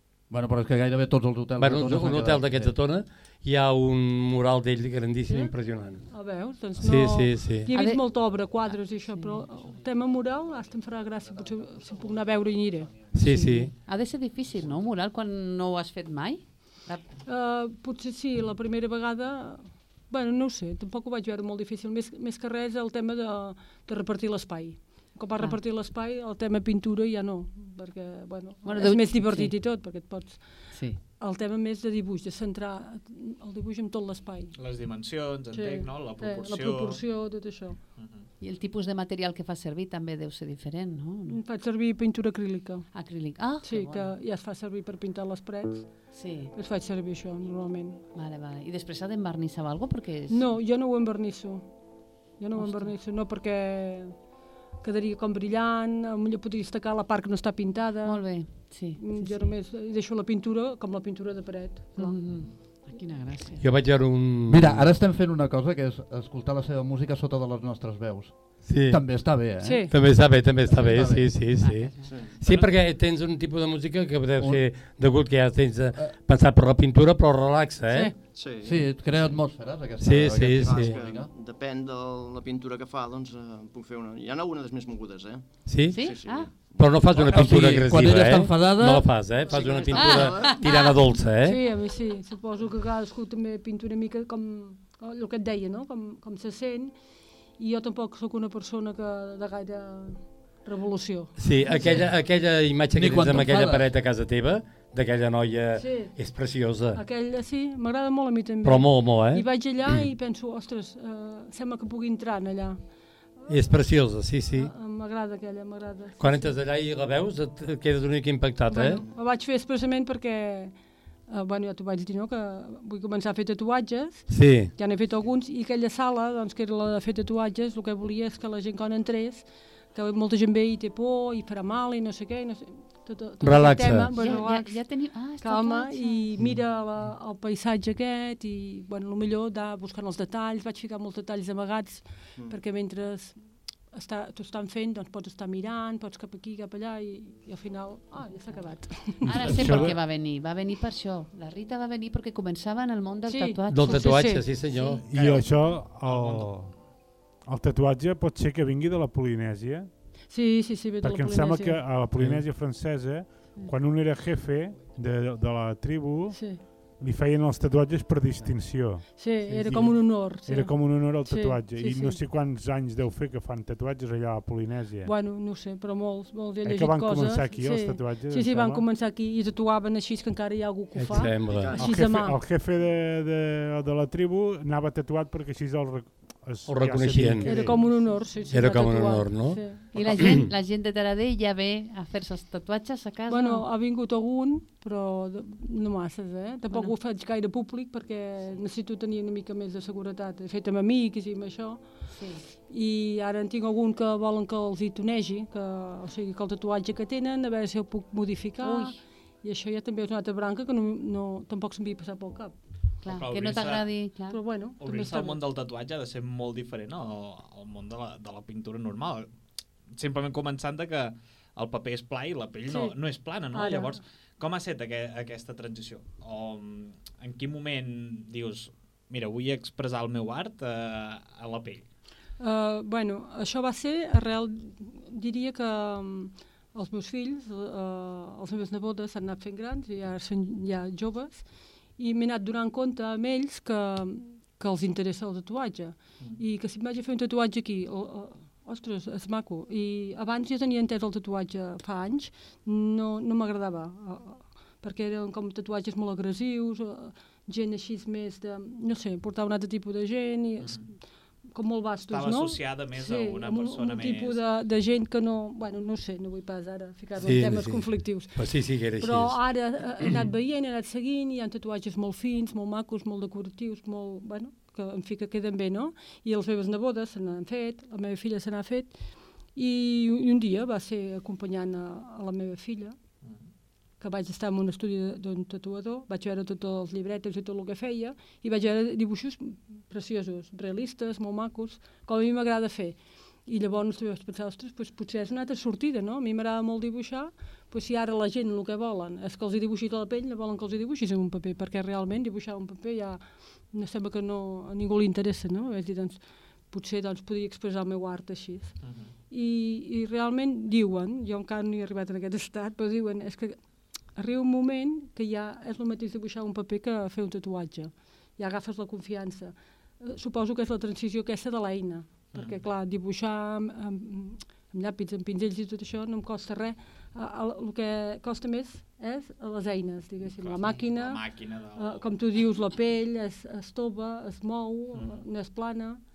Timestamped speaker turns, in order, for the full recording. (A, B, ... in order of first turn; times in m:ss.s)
0:00.3-0:02.7 A
0:01.6-0:06.0 B
0:06.1-0:13.1 C
0:06.8-0:07.7 B
0:07.7-0:08.0 D
0:09.1-0:09.4 D
0:13.1-0:13.7 B
0:13.2-0:17.0 D
0:17.3-0:30.4 C
0:28.6-0:29.5 D
0:30.7-0:31.0 D
0:31.2-0:34.5 C
0:34.6-0:37.0 E
0:35.5-0:37.8 C
0:38.0-0:38.2 E
0:38.4-0:41.4 D
0:41.3-0:42.9 C
0:42.9-0:44.1 D
0:43.6-0:45.9 C
0:46.1-0:46.5 D
0:46.5-0:48.0 C
0:48.1-0:50.4 D
0:50.3-0:51.6 C
0:52.4-0:54.1 C
0:52.6-0:52.9 D
0:54.8-0:58.2 C
0:58.0-0:59.5 D
0:59.0-1:02.2 C
1:02.0-1:03.6 D
1:03.6-1:04.9 B
1:04.5-1:09.9 A
1:08.6-1:09.0 B
1:09.6-1:09.9 C
1:09.9-1:18.1 B
1:10.7-1:11.3 A
1:11.6-1:12.1 D
1:12.1-1:12.4 F
1:12.4-1:12.7 E
1:18.3-1:19.3 F
1:18.6-1:21.3 A
1:20.0-1:21.0 B
1:20.6-1:26.9 F
1:25.7-1:26.1 B
1:25.9-1:26.5 D
1:26.8-1:31.6 B
1:27.1-1:29.2 A
1:29.4-1:30.6 F
1:29.9-1:31.0 D
1:31.4-1:37.0 C
1:37.6-1:41.4 C
1:41.4-1:47.0 B
1:43.0-1:43.9 A
1:45.8-1:46.2 C
1:46.9-1:52.8 C
1:48.6-1:49.4 B
1:53.5-1:54.7 B
1:54.5-1:56.5 C
1:56.2-1:59.0 B
1:58.7-2:00.7 C
2:01.3-2:14.8 C
2:04.3-2:04.7 B
2:13.4-2:14.1 B
2:14.2-2:16.3 D
2:15.4-2:23.4 C
2:23.9-2:29.8 C
2:29.2-2:35.0 D
2:29.3-2:30.0 G
2:33.3-2:34.5 C
2:33.7-2:35.0 B
2:35.0-2:36.7 G
2:35.1-2:36.5 E
2:37.5-2:39.9 G
2:40.3-2:41.8 C
2:41.0-2:46.4 G
2:42.2-2:42.4 B
2:46.3-2:46.6 C
2:47.0-2:55.1 G
2:49.1-2:52.2 C
2:55.0-3:02.4 C
2:56.6-2:58.8 G
3:01.0-3:01.8 B
3:01.4-3:02.0 F
3:01.7-3:08.1 G
3:06.7-3:07.7 B
3:07.4-3:10.2 C
3:08.5-3:09.6 B
3:09.9-3:13.6 D
3:10.2-3:10.5 B
3:13.3-3:21.8 C
3:22.1-3:22.4 D
3:22.7-3:32.5 C
3:28.6-3:29.0 D
3:33.0-3:34.4 D
3:33.1-3:33.8 E
3:34.3-3:35.4 C
3:34.8-3:39.3 E
3:40.0-3:51.9 E
3:42.7-3:43.0 C
3:43.5-3:44.0 C
3:52.4-4:01.4 C
4:02.0-4:20.8 C
4:21.5-4:28.4 C
4:22.1-4:24.4 E
4:27.2-4:29.4 B
4:29.0-4:39.0 C
4:39.6-4:43.0 C
4:44.0-5:03.2 C
5:03.7-5:06.2 C
5:06.7-5:08.8 C
5:08.8-5:09.1 E
5:09.3-5:13.6 C
5:14.2-5:31.2 C
5:30.4-5:32.1 E
5:31.8-5:36.0 C
5:35.0-5:35.2 E